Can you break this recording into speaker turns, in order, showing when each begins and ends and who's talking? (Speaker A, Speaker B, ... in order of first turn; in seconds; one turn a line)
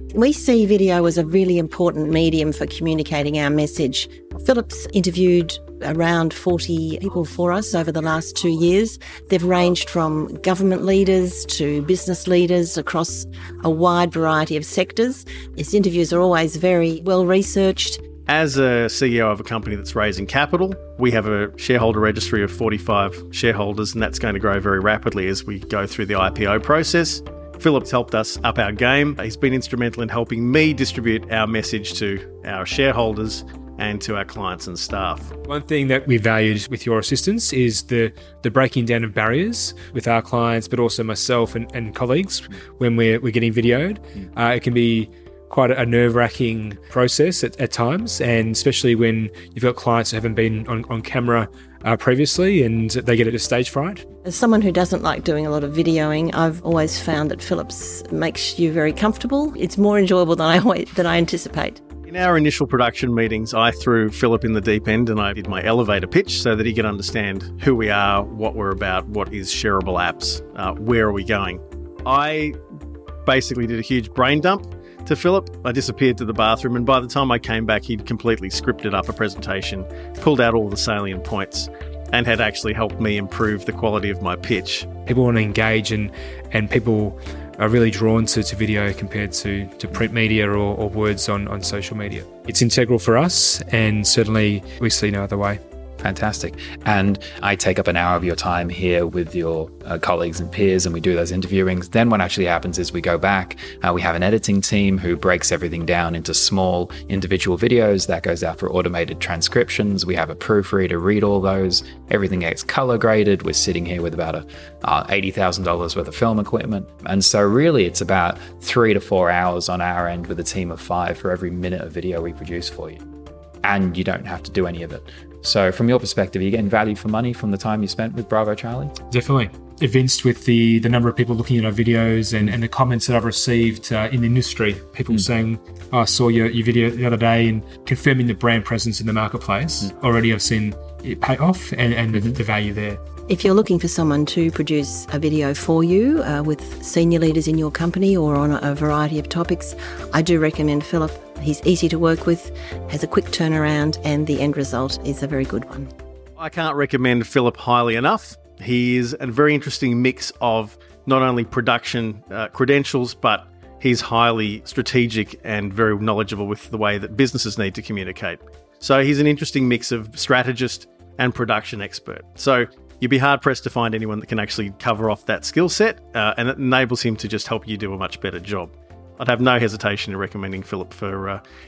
Speaker A: 0.1-18.0
Speaker B: 18.3-35.3
Speaker C: 35.5-54.0
Speaker A: 54.2-61.8
Speaker B: 62.1-72.6
Speaker B: 73.2-84.9
Speaker C: 85.1-95.6
Speaker D: 96.0-123.0
Speaker D: 123.6-128.9
Speaker C: 129.1-143.0
Speaker A: 143.3-155.9
Speaker B: 156.4-181.4